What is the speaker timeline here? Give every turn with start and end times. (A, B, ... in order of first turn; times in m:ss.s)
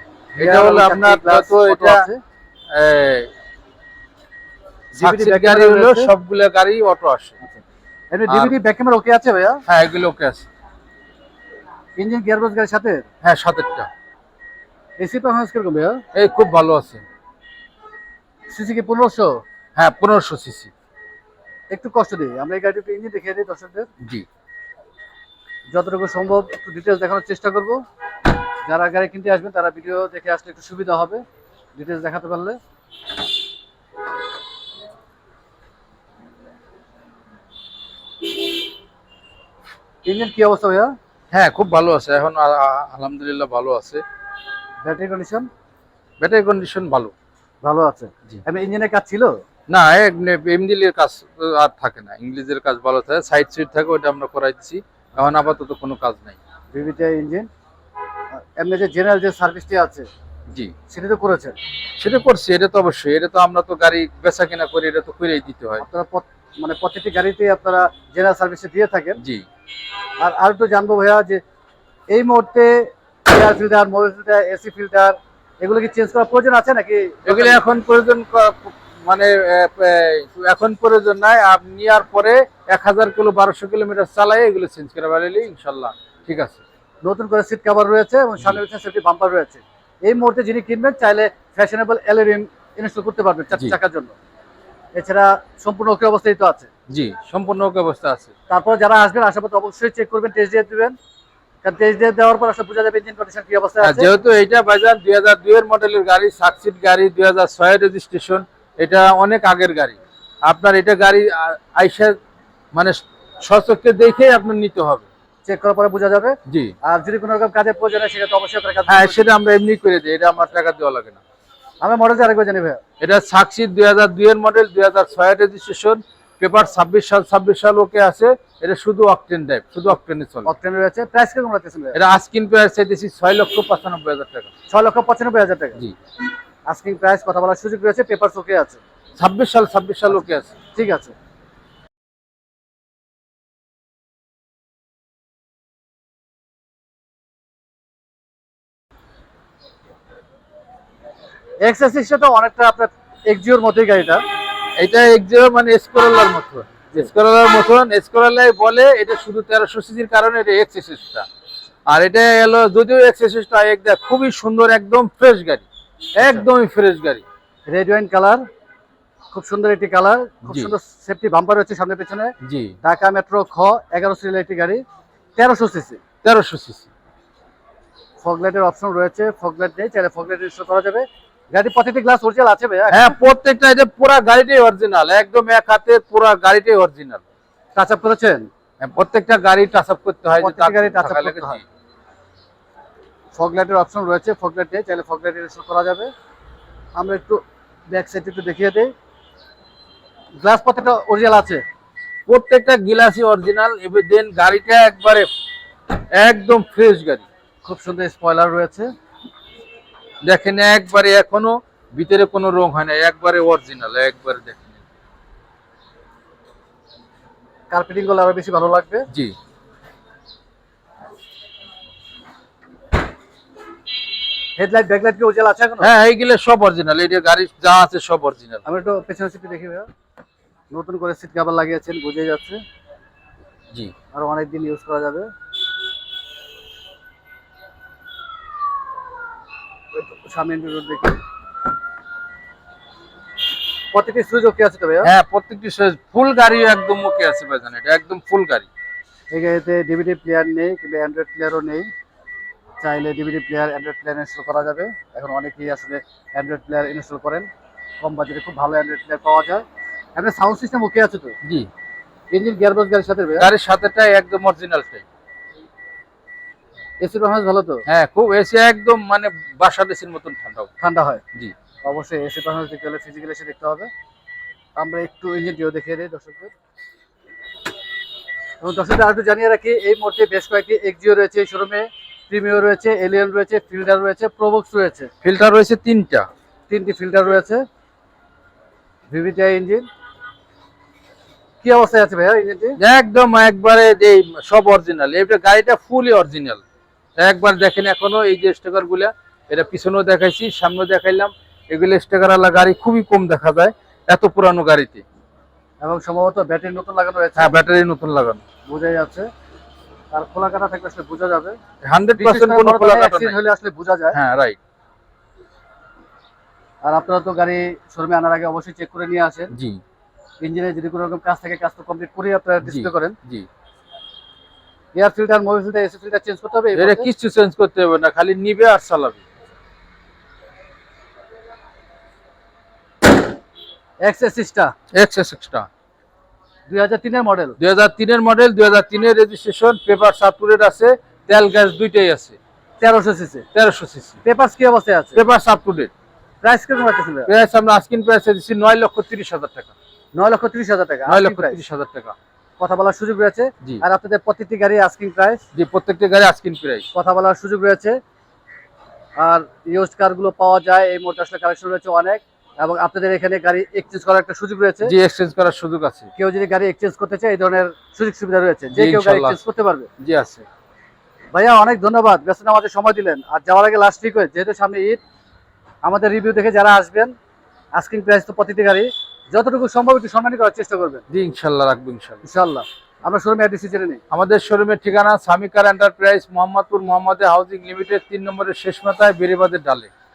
0:00.4-0:02.0 A
0:00.4-0:02.2 B
0:02.7-0:03.3 A
0:04.9-0:06.1 B
0:05.0-0:07.3 A
0:07.4-0:09.6 B
0:08.3-0:08.6 A
0:09.7-0:10.5 A
0:12.0-0:13.0 B
0:13.2-0:13.9 A
0:15.0-0:16.0 B
0:16.1-0:17.0 A
0:18.5-0:19.4 B
0:19.8-0:20.7 A
0:21.7-0:23.9 B
0:25.7-0:27.8 B
0:28.6-0:31.2 B
0:31.8-0:32.6 B
0:40.0-0:40.9 B
0:41.3-0:44.0 A
0:44.8-0:45.4 B
0:46.2-0:47.1 A
0:47.6-0:49.3 B
0:49.7-0:56.4 A
0:56.7-0:57.5 B
0:58.3-1:00.1 B
1:00.9-1:01.5 B
1:02.0-1:05.8 A
1:05.8-1:09.2 B
1:09.2-1:09.4 A
1:10.2-1:11.4 B
1:12.1-1:17.6 B
1:17.3-1:26.6 A
1:27.0-1:34.1 B
1:35.0-1:36.7 B
1:36.9-1:38.3 A
1:38.5-1:40.9 B
1:41.6-1:44.1 B
1:43.8-1:52.1 A
1:52.7-1:55.0 A
1:55.4-1:59.2 B
1:56.5-1:56.7 A
1:58.9-2:01.2 A
2:01.8-2:02.8 B
2:03.0-2:10.5 A
2:10.4-2:12.0 B
2:11.9-2:14.5 A
2:14.7-2:15.8 B
2:16.7-2:18.8 B
2:19.2-2:20.5 A
2:20.7-2:21.1 B
2:31.6-2:34.2 B
2:34.8-2:41.2 A
2:41.9-2:45.6 A
2:46.2-2:47.2 A
2:47.7-2:48.4 B
2:49.3-2:52.3 B
2:50.5-2:50.7 A
2:52.4-2:52.8 A
2:52.8-2:54.8 B
2:55.4-2:56.0 B
2:56.2-2:56.9 A
2:58.2-3:03.2 B
3:02.9-3:07.2 A
3:07.8-3:08.5 B
3:08.8-3:11.6 A
3:10.4-3:11.6 B
3:13.3-3:16.1 B
3:17.0-3:18.9 B
3:20.4-3:21.6 B
3:22.3-3:25.3 A
3:25.9-3:27.2 A
3:27.6-3:28.9 B
3:30.2-3:34.8 A
3:37.7-3:39.1 B
3:44.6-3:45.9 B
3:45.8-3:48.6 A
3:48.6-3:49.9 B
3:50.7-3:52.6 B
3:54.1-3:55.3 B
3:59.9-4:01.2 B
4:03.9-4:05.1 B
4:05.0-4:08.7 A
4:09.3-4:11.9 B
4:12.8-4:17.5 B
4:18.0-4:19.6 B
4:20.2-4:21.3 B
4:22.3-4:23.5 B
4:23.4-4:25.0 A
4:27.0-4:27.8 B
4:27.9-4:30.7 A
4:30.8-4:31.2 B
4:31.8-4:33.9 B
4:34.8-4:36.5 B
4:38.6-4:45.1 B
4:45.2-4:46.3 A
4:46.7-4:47.6 B
4:49.1-4:49.8 B
4:51.6-4:52.8 B
4:52.8-4:56.6 A
4:57.2-5:05.0 A
5:05.8-5:07.6 B
5:07.4-5:08.4 A
5:08.7-5:09.3 B
5:10.1-5:11.6 B
5:11.8-5:13.4 A
5:12.2-5:14.2 B
5:14.1-5:14.6 A
5:16.8-5:19.5 B
5:19.5-5:19.8 A
5:20.4-5:23.2 B
5:22.6-5:23.5 A
5:25.0-5:27.1 B
5:26.8-5:29.2 A
5:34.0-5:34.7 B
5:34.9-5:35.7 A
5:36.7-5:37.6 B
5:37.6-5:42.4 A
5:42.8-5:43.4 B
5:43.5-5:44.2 A
5:44.2-5:45.2 B
5:45.1-5:45.9 A
5:46.4-5:47.3 B
5:47.3-5:49.7 A
5:50.2-5:51.6 B
5:51.1-5:52.1 A
5:52.6-5:55.4 B
5:55.5-5:56.9 A
5:56.9-5:58.0 B
5:59.2-6:04.9 B
6:04.8-6:06.1 A
6:06.2-6:09.9 B
6:08.7-6:09.4 A
6:10.0-6:10.4 A
6:11.3-6:15.0 B
6:15.8-6:17.1 B
6:17.8-6:21.0 B
6:21.1-6:22.2 A
6:22.2-6:24.0 B
6:24.1-6:29.9 A